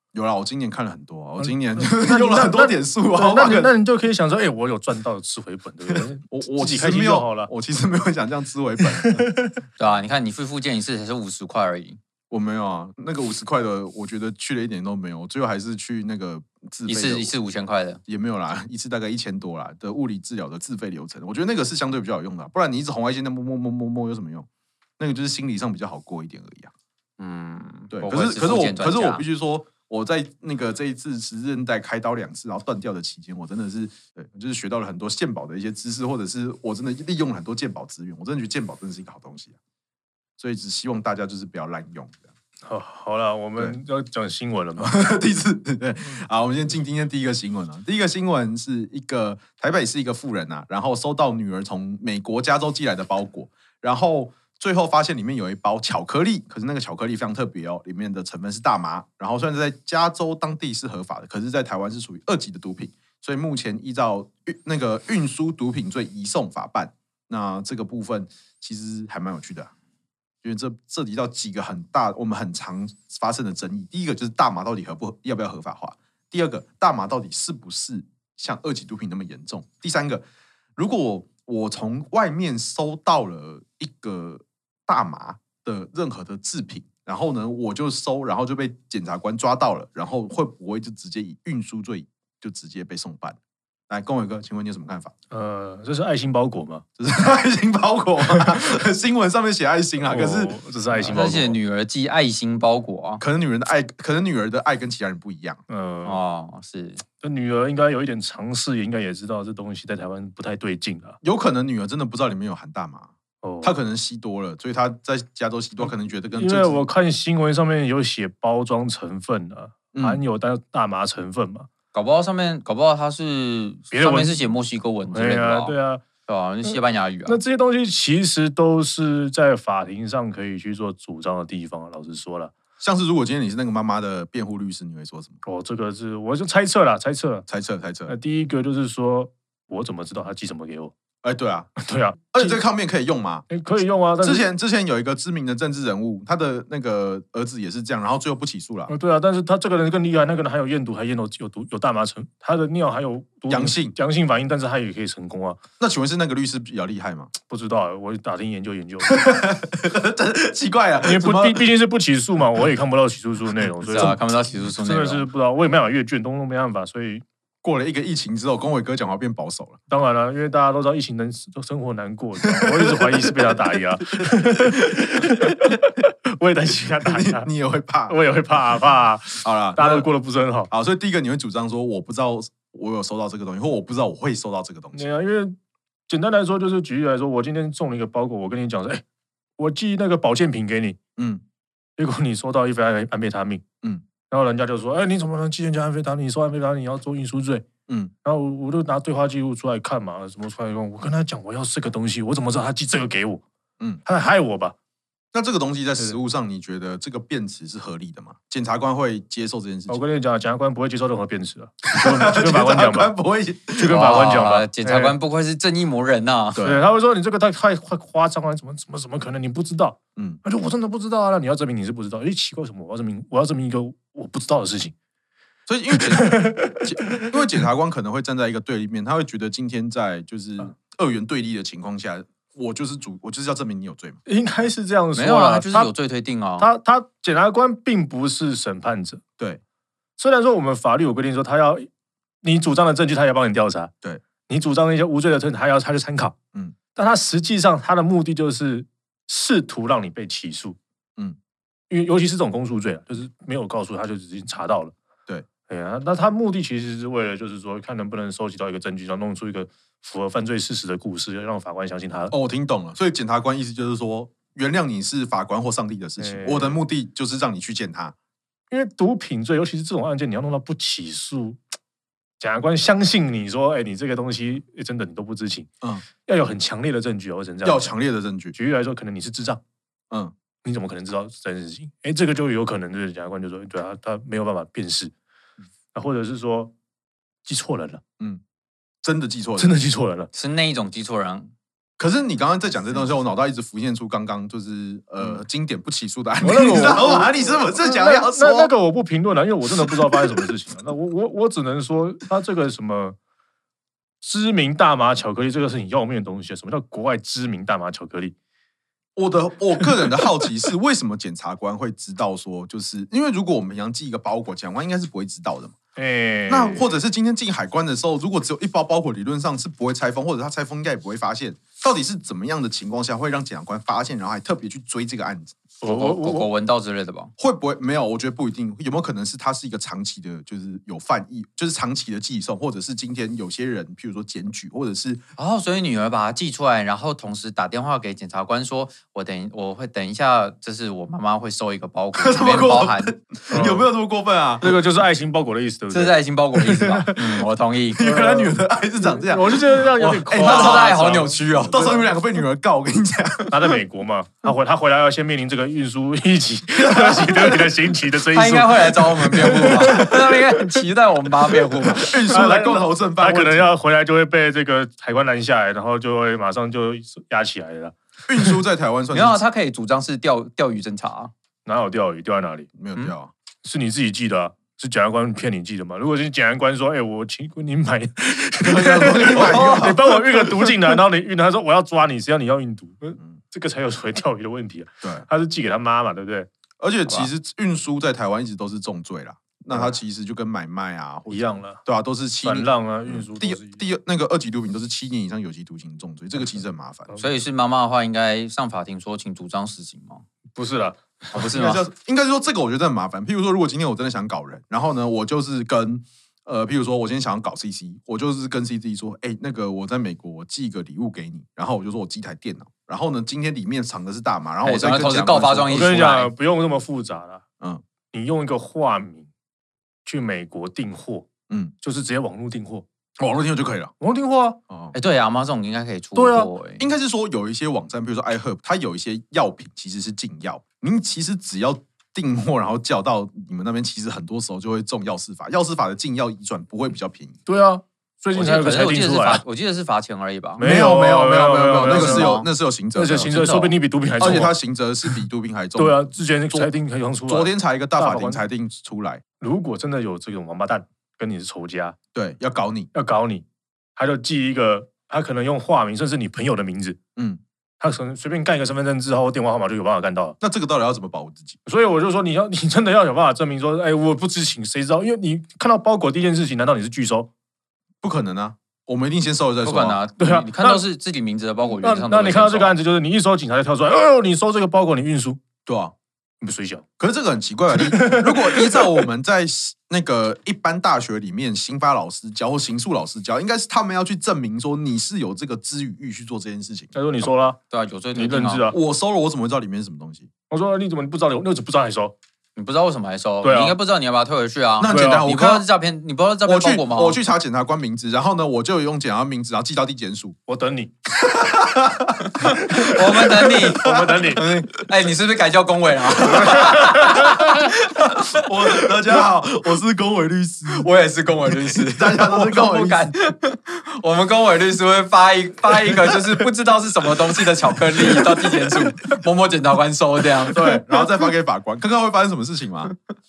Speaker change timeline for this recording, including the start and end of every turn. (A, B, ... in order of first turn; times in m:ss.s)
0:00.1-0:03.7 A
0:01.4-0:07.5 B
0:05.9-0:09.4 A
0:08.8-0:09.6 B
0:09.8-0:12.0 C
0:12.3-0:17.3 A
0:16.9-0:18.0 C
0:18.1-0:24.5 A
0:25.0-0:26.7 A
0:27.2-0:29.2 C
0:27.9-0:39.6 A
0:40.4-0:42.2 A
0:42.6-0:45.0 B
0:44.8-1:09.7 A
1:10.4-1:20.2 A
1:20.8-1:33.4 A
1:33.9-1:35.1 A
1:35.3-1:36.8 B
1:37.0-1:41.5 A
1:40.0-1:41.6 B
1:41.1-1:43.2 C
1:43.2-1:45.6 A
1:45.7-1:46.2 B
1:46.0-1:47.0 C
1:47.2-1:51.2 B
1:51.2-1:56.8 A
1:53.4-1:53.8 B
1:56.3-2:01.7 B
1:59.9-2:00.2 A
2:01.9-2:05.7 C
2:03.9-2:04.4 B
2:05.1-2:06.0 B
2:06.3-2:07.4 C
2:06.6-2:12.5 B
2:12.8-2:15.4 A
2:15.4-2:17.5 B
2:17.5-2:18.1 A
2:18.1-2:20.9 B
2:21.2-2:21.7 A
2:21.8-2:22.6 B
2:22.3-2:23.5 A
2:23.5-2:24.5 B
2:24.2-2:28.9 A
2:28.9-2:35.6 B
2:33.5-2:34.0 A
2:35.8-2:37.3 A
2:37.5-2:39.2 B
2:39.0-2:41.6 A
2:41.0-2:44.2 B
2:43.9-2:45.3 C
2:44.8-2:47.2 B
2:47.6-2:49.8 A
2:49.9-2:57.5 B
2:52.4-2:55.7 A
2:57.0-2:58.1 A
2:58.1-3:00.7 B
2:59.4-3:00.0 A
3:00.7-3:05.1 A
3:04.9-3:05.6 B
3:06.1-3:09.0 B
3:09.6-3:11.0 B
3:11.2-3:11.4 A
3:12.0-3:13.6 B
3:14.3-3:17.6 B
3:18.2-3:23.4 B
3:24.0-3:24.7 B
3:25.3-3:30.0 A
3:29.9-3:33.1 B
3:31.8-3:34.2 A
3:33.8-3:35.1 B
3:33.9-3:36.6 C
3:36.5-3:36.8 A
3:36.6-3:44.9 B
3:40.2-3:40.4 A
3:45.7-3:54.2 A
3:45.9-3:47.4 B
3:54.2-3:55.9 B
3:55.1-3:56.7 C
3:56.6-3:59.2 B
4:00.2-4:01.9 B
4:02.4-4:03.9 B
4:04.5-4:06.4 B
4:06.9-4:10.8 B
4:11.9-4:14.9 B
4:15.7-4:22.3 B
4:22.3-4:28.1 A
4:26.2-4:26.8 B
4:28.7-4:31.6 B
4:32.4-4:35.7 B
4:36.2-4:37.9 B
4:37.6-4:38.5 A
4:38.5-4:39.6 B
4:40.6-4:45.1 B
4:45.9-4:46.7 B
4:47.4-4:48.0 B
4:49.0-4:49.7 A
4:49.6-4:50.3 B
4:50.3-4:51.5 C
4:52.0-4:58.7 A
4:56.4-5:03.2 B
4:59.8-5:00.4 A
5:04.2-5:08.3 B
5:09.2-5:15.8 A
5:16.0-5:16.9 B
5:16.5-5:25.6 A
5:25.8-5:26.5 B
5:25.9-5:27.3 C
5:27.4-5:35.2 A
5:35.4-5:43.1 C
5:42.1-5:44.8 A
5:43.5-5:43.9 B
5:44.6-5:47.4 B
5:45.9-5:48.1 C
5:47.9-5:53.8 A
5:48.0-5:52.0 B
5:50.3-5:52.0 C
5:53.5-6:00.6 B
5:56.7-5:57.8 A
5:58.3-6:02.1 C
5:59.6-6:00.0 A
6:01.7-6:08.6 B
6:02.0-6:03.8 A
6:08.3-6:09.4 A
6:09.1-6:11.3 C
6:11.6-6:12.7 B
6:12.8-6:13.3 A
6:13.6-6:26.5 B
6:18.6-6:20.8 A
6:26.8-6:37.2 A
6:31.3-6:31.8 B
6:32.4-6:33.8 B
6:37.2-6:40.2 C
6:40.6-6:41.4 B
6:41.3-6:41.8 C
6:41.4-6:55.9 A
6:54.6-6:56.3 C
6:55.7-6:57.4 B
6:58.1-6:59.3 B
7:00.0-7:01.3 B
7:01.8-7:02.8 B
7:03.2-7:03.9 A
7:04.0-7:04.6 B
7:04.7-7:04.9 A
7:04.9-7:06.8 C
7:06.2-7:06.5 B
7:06.8-7:17.4 A
7:17.4-7:19.4 B
7:18.3-7:20.6 C
7:20.6-7:22.3 B
7:20.6-7:23.3 A
7:21.8-7:22.5 C
7:22.9-7:25.2 B
7:23.1-7:23.7 C
7:24.2-7:26.7 A
7:25.8-7:28.4 B
7:27.3-7:29.2 A
7:29.4-7:32.0 B
7:32.1-7:32.9 A
7:32.9-7:33.4 B
7:34.0-7:37.0 B
7:37.2-7:37.4 A
7:37.8-7:40.4 B
7:40.4-7:41.6 A
7:41.6-7:47.3 B
7:48.0-7:50.0 A
7:49.6-7:52.8 C
7:50.2-7:50.8 B
7:51.8-7:55.4 B
7:55.6-7:55.9 A
7:56.4-7:56.8 B
7:57.0-8:07.2 A
7:57.8-7:58.8 B
8:06.9-8:07.6 B
8:07.7-8:08.7 C
8:08.1-8:08.8 B
8:08.7-8:10.3 A
8:10.5-8:12.1 B
8:12.6-8:17.2 C
8:13.4-8:13.8 B
8:14.8-8:15.7 A
8:14.9-8:15.2 B
8:16.4-8:20.4 A
8:20.5-8:20.9 B
8:21.1-8:24.8 A
8:22.4-8:24.4 B
8:22.4-8:29.0 C
8:26.1-8:27.3 A
8:26.4-8:27.6 B
8:28.0-8:30.9 A
8:30.7-8:40.8 C
8:31.5-8:33.1 A
8:40.5-8:42.9 A